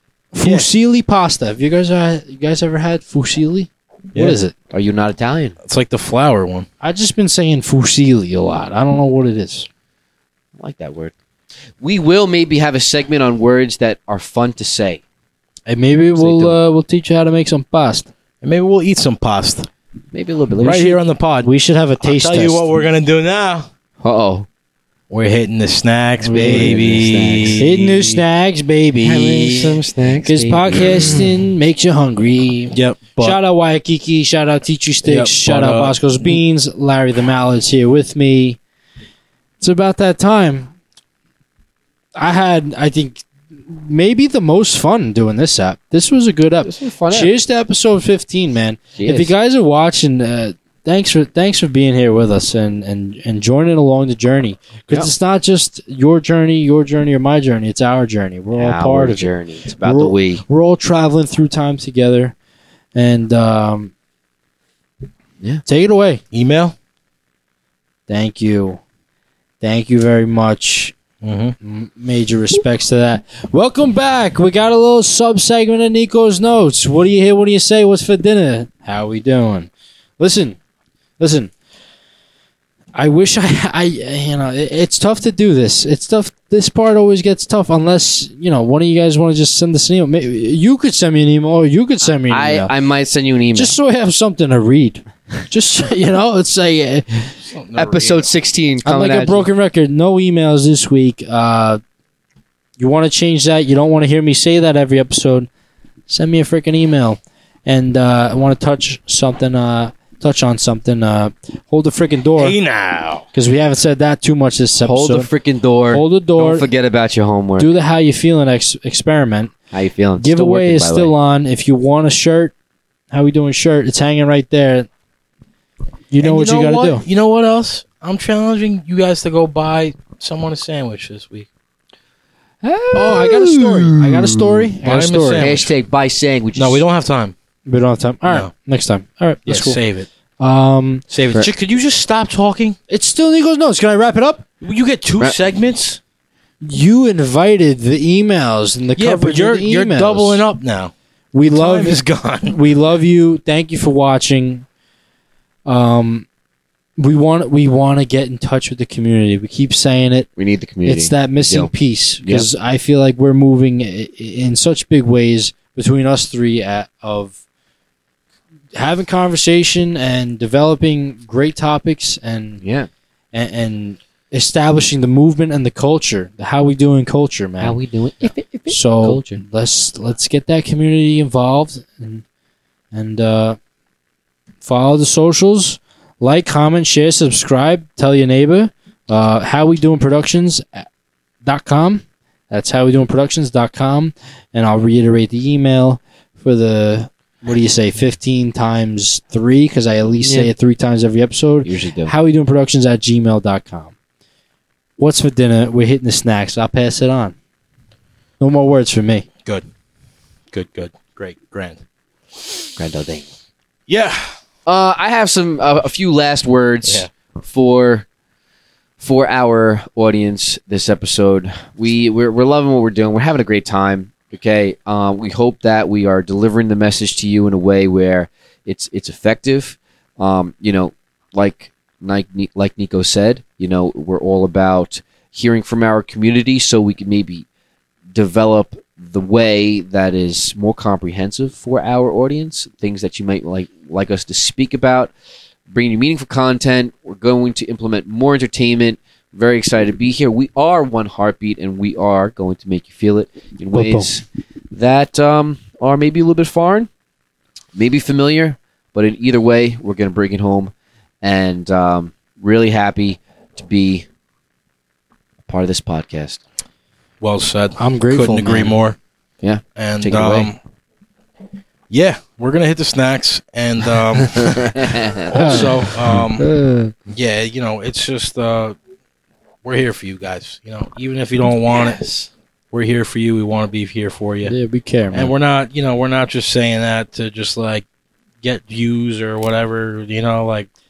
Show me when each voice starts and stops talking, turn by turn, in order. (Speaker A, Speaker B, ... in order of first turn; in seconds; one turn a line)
Speaker A: 0.3-4.5
Speaker B: 0.4-0.7
Speaker C: 4.7-5.6
Speaker B: 5.6-6.7
Speaker A: 6.8-9.7
Speaker C: 10.6-11.1
Speaker C: 11.8-15.0
Speaker A: 15.7-18.1
Speaker C: 16.1-16.6
Speaker B: 18.4-19.7
Speaker C: 20.1-21.0
Speaker B: 20.6-21.5
Speaker A: 21.4-22.6
Speaker B: 22.0-23.7
Speaker C: 24.0-24.5
Speaker B: 25.1-28.2
Speaker A: 26.2-38.6
Speaker C: 26.3-27.8
Speaker C: 29.0-31.3
Speaker B: 32.7-33.4
Speaker B: 35.0-36.4
Speaker A: 39.6-40.7
Speaker A: 42.1-59.3
Speaker C: 46.6-47.3
Speaker C: 49.0-49.3
Speaker C: 58.5-60.4
Speaker A: 59.8-62.3
Speaker A: 62.9-63.9
Speaker A: 65.7-66.2
Speaker B: 66.3-66.8
Speaker A: 68.1-68.8
Speaker A: 69.6-70.9
Speaker B: 71.2-71.5
Speaker A: 71.6-80.6
Speaker A: 81.2-81.5
Speaker A: 82.9-92.7
Speaker C: 92.0-93.8
Speaker A: 93.5-97.3
Speaker B: 97.4-98.3
Speaker C: 97.8-99.5
Speaker A: 98.8-101.8
Speaker A: 102.8-105.5
Speaker A: 106.1-112.6
Speaker B: 112.4-113.3
Speaker A: 113.3-115.3
Speaker C: 114.8-117.7
Speaker A: 115.9-116.7
Speaker A: 117.6-119.5
Speaker C: 119.7-121.1
Speaker A: 120.2-122.5
Speaker A: 123.1-124.9
Speaker A: 126.1-127.0
Speaker B: 126.2-131.5
Speaker C: 132.6-134.7
Speaker A: 132.9-135.5
Speaker B: 134.8-135.7
Speaker C: 135.4-136.8
Speaker B: 136.5-137.3
Speaker A: 137.7-139.8
Speaker B: 139.4-140.1
Speaker A: 140.4-141.0
Speaker B: 141.1-142.8
Speaker A: 142.9-144.4
Speaker B: 144.6-146.0
Speaker A: 146.6-150.4
Speaker B: 148.9-150.9
Speaker A: 151.3-154.7
Speaker B: 151.5-152.6
Speaker A: 155.7-156.3
Speaker A: 157.0-160.3
Speaker C: 160.4-162.5
Speaker A: 160.8-167.3
Speaker A: 168.8-172.6
Speaker C: 172.6-172.9
Speaker A: 173.3-177.8
Speaker C: 177.6-179.4
Speaker A: 178.7-182.2
Speaker A: 182.9-183.6
Speaker A: 184.6-190.9
Speaker A: 191.4-203.9
Speaker C: 200.2-200.5
Speaker C: 201.6-202.1
Speaker A: 205.0-207.3
Speaker A: 208.4-209.2
Speaker B: 210.5-211.8
Speaker C: 212.8-213.2
Speaker B: 213.9-214.4
Speaker C: 214.7-218.1
Speaker B: 216.8-217.1
Speaker C: 219.0-237.4
Speaker C: 238.1-245.1
Speaker C: 245.7-256.9
Speaker A: 253.7-254.1
Speaker C: 257.7-264.1
Speaker C: 265.5-266.4
Speaker B: 267.2-269.0
Speaker A: 267.8-268.8
Speaker C: 269.4-270.5
Speaker B: 269.8-270.6
Speaker B: 271.9-276.5
Speaker C: 274.4-275.7
Speaker A: 275.3-276.9
Speaker B: 277.1-278.8
Speaker B: 279.6-282.0
Speaker C: 281.7-282.3
Speaker B: 282.7-284.5
Speaker A: 284.4-285.3
Speaker B: 285.1-287.9
Speaker B: 288.4-290.7